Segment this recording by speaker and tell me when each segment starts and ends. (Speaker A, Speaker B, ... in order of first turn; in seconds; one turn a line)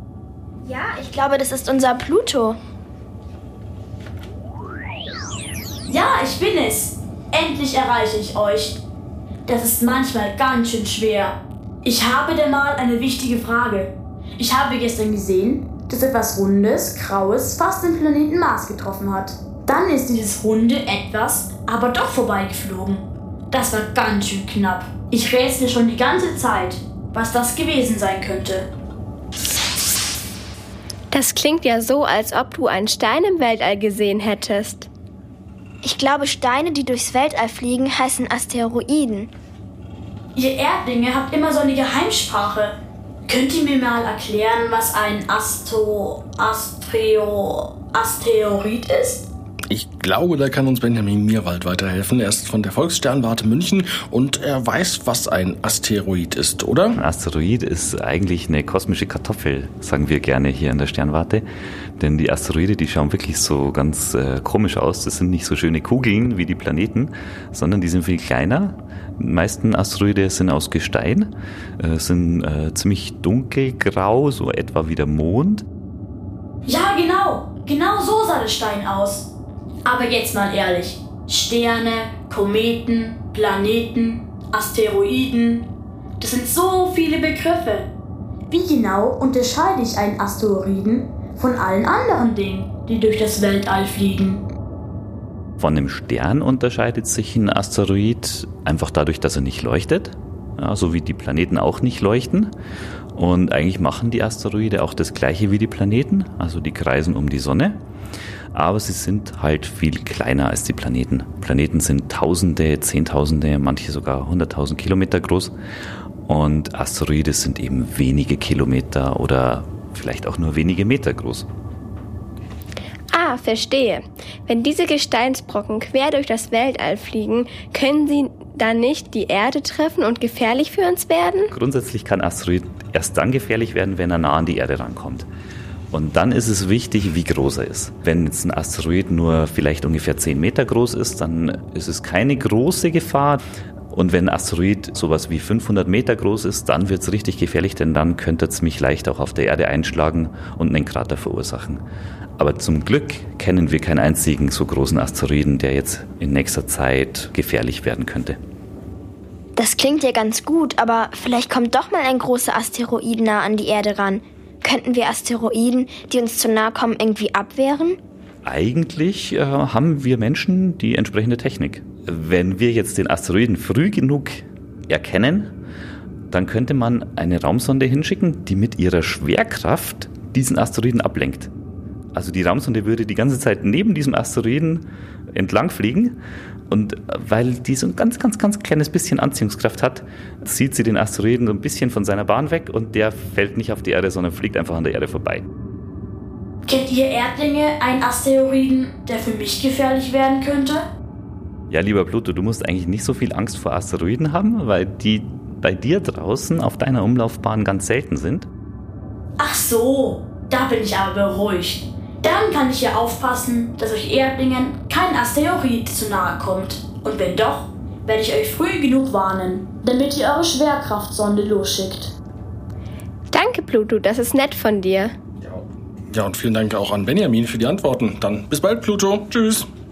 Speaker A: 0.7-2.6
Speaker B: 5.9-8.8
Speaker B: 9.5-28.7
Speaker C: 31.1-34.9
Speaker A: 35.8-39.3
Speaker B: 40.4-42.8
Speaker B: 43.3-49.3
Speaker D: 49.7-57.0
Speaker E: 57.0-61.5
Speaker E: 62.0-75.7
Speaker B: 76.7-79.3
Speaker B: 79.9-85.7
Speaker B: 86.2-87.9
Speaker B: 88.5-94.4
Speaker E: 95.6-102.5
Speaker E: 103.2-107.8
Speaker E: 108.5-115.5
Speaker E: 116.3-121.5
Speaker C: 123.1-131.5
Speaker E: 131.5-135.3
Speaker E: 135.9-151.8
Speaker E: 152.4-158.4
Speaker A: 159.6-168.0
Speaker E: 168.4-175.6
Speaker E: 176.3-181.5
Speaker E: 182.2-186.2
Speaker E: 186.7-195.5
Speaker B: 196.7-200.8
Speaker E: 201.7-208.5
Speaker B: 209.4-222.1
Speaker C: 223.3-225.1
Speaker D: 225.4-229.7